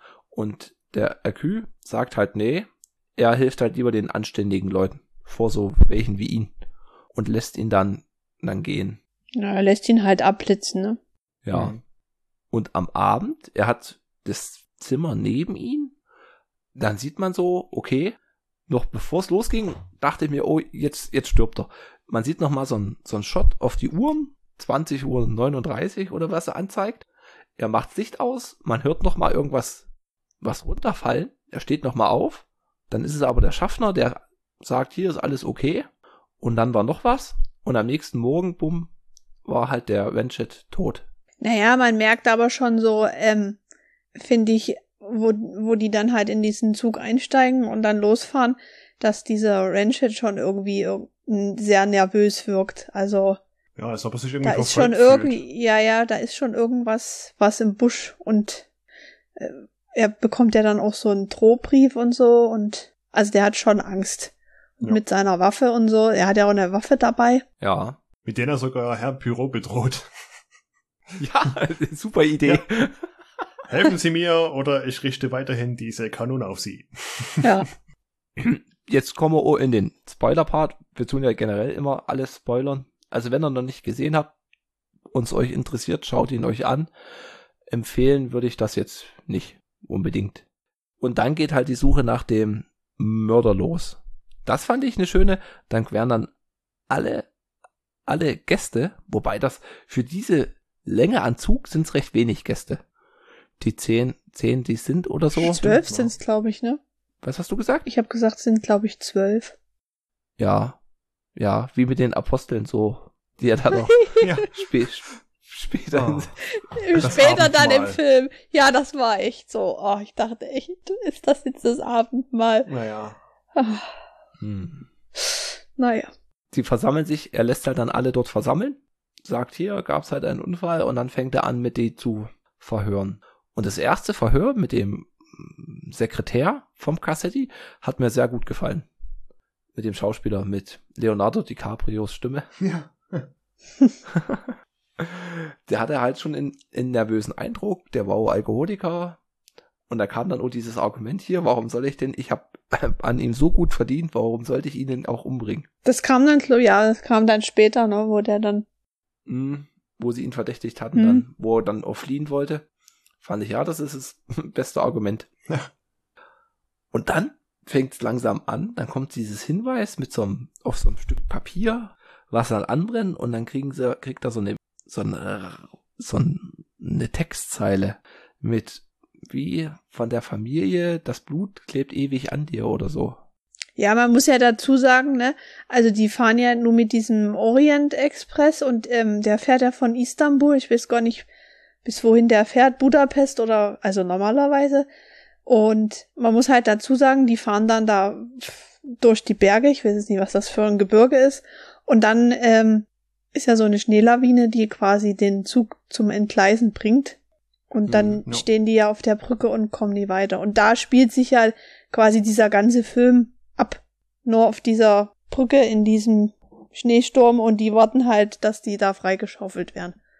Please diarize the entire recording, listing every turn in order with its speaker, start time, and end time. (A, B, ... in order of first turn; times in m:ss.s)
0:00.3-0:06.5 A
0:07.1-0:09.0 A
0:09.3-0:11.0 B
0:11.4-0:11.8 A
0:11.5-0:11.8 C
0:12.5-0:15.9 A
0:16.7-0:18.2 A
0:18.7-0:27.0 A
0:27.6-0:29.8 A
0:30.4-0:35.9 A
0:36.4-0:38.9 A
0:39.4-0:41.0 A
0:41.4-0:43.6 B
0:44.1-0:53.4 B
0:53.8-0:55.4 C
0:54.4-0:58.7 B
0:59.4-1:07.4 B
1:07.6-1:08.0 A
1:08.2-1:10.1 C
1:11.2-1:13.0 A
1:13.7-1:17.5 C
1:17.4-1:17.7 B
1:18.4-1:24.3 A
1:25.1-1:26.9 A
1:27.7-1:30.4 A
1:31.0-1:36.3 A
1:36.9-1:37.3 A
1:38.1-1:42.8 A
1:43.6-1:45.6 A
1:45.3-1:46.1 C
1:45.4-1:46.8 B
1:47.2-1:47.8 A
1:47.8-1:49.6 B
1:50.4-1:50.8 A
1:51.4-1:56.3 A
1:53.7-1:54.3 B
1:54.2-1:54.5 C
1:55.9-1:56.3 C
1:56.5-2:02.7 B
1:56.9-1:58.0 C
2:02.6-2:03.2 C
2:03.6-2:04.0 B
2:04.4-2:04.9 A
2:05.2-2:06.1 B
2:06.5-2:18.8 A
2:19.7-2:22.5 A
2:22.6-2:23.3 C
2:24.1-2:29.2 A
2:29.9-2:35.7 A
2:35.8-2:38.6 B
2:39.3-2:42.6 A
2:40.9-2:41.2 B
2:43.2-2:45.3 A
2:46.9-3:03.2 A
3:03.8-3:11.2 B
3:11.8-3:14.9 B
3:15.4-3:27.2 B
3:27.7-3:40.0 B
3:27.9-3:28.2 A